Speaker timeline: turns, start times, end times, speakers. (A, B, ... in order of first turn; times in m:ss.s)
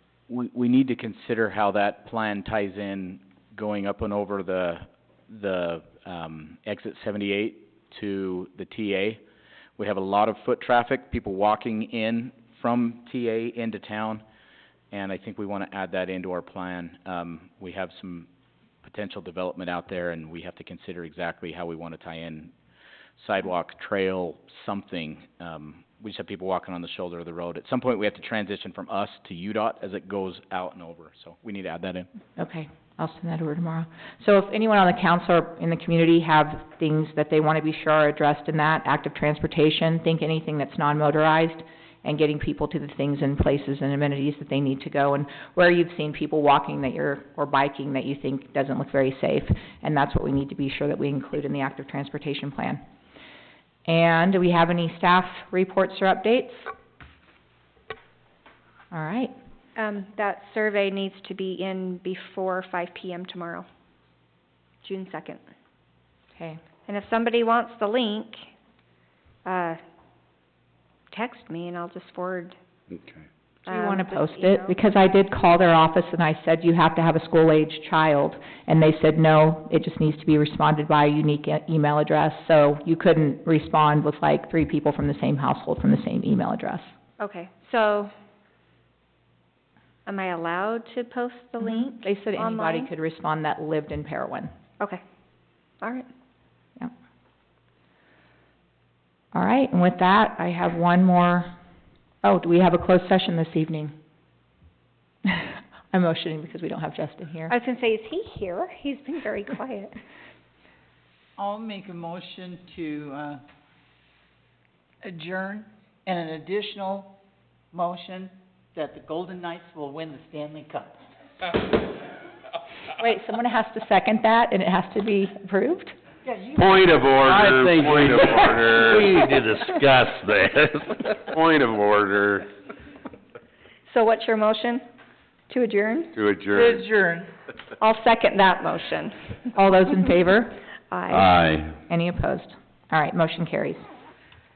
0:00.3-0:09.2 A
0:09.8-0:14.2 A
0:14.9-0:18.3 A
0:18.8-0:22.5 A
0:23.2-0:32.1 A
0:32.4-0:52.8 B
0:53.9-0:56.6 B
0:58.9-0:59.3 B
0:59.8-1:03.7 C
1:04.8-1:05.4 C
1:06.4-1:06.6 B
1:06.9-1:08.5 C
1:09.4-1:09.8 C
1:11.1-1:12.6 C
1:13.7-1:14.8 C
1:13.7-1:26.9 B
1:27.2-1:28.1 C
1:30.1-1:32.9 C
1:31.6-1:34.5 B
1:35.8-1:36.1 C
1:39.3-1:41.5 B
1:42.2-1:43.9 B
1:45.2-1:47.6 B
1:47.5-1:50.0 C
1:51.4-1:53.4 D
1:55.0-1:57.2 D
1:57.7-2:01.0 D
2:03.0-2:06.0 B
2:06.2-2:07.2 D
2:06.6-2:09.1 E
2:07.1-2:11.2 F
2:11.3-2:12.5 E
2:13.9-2:14.8 C
2:15.5-2:16.1 C
2:16.1-2:16.8 E
2:16.5-2:17.3 D
2:17.8-2:19.5 C
2:19.6-2:20.6 B
2:20.9-2:21.4 C
2:21.1-2:21.7 F
2:21.9-2:23.8 B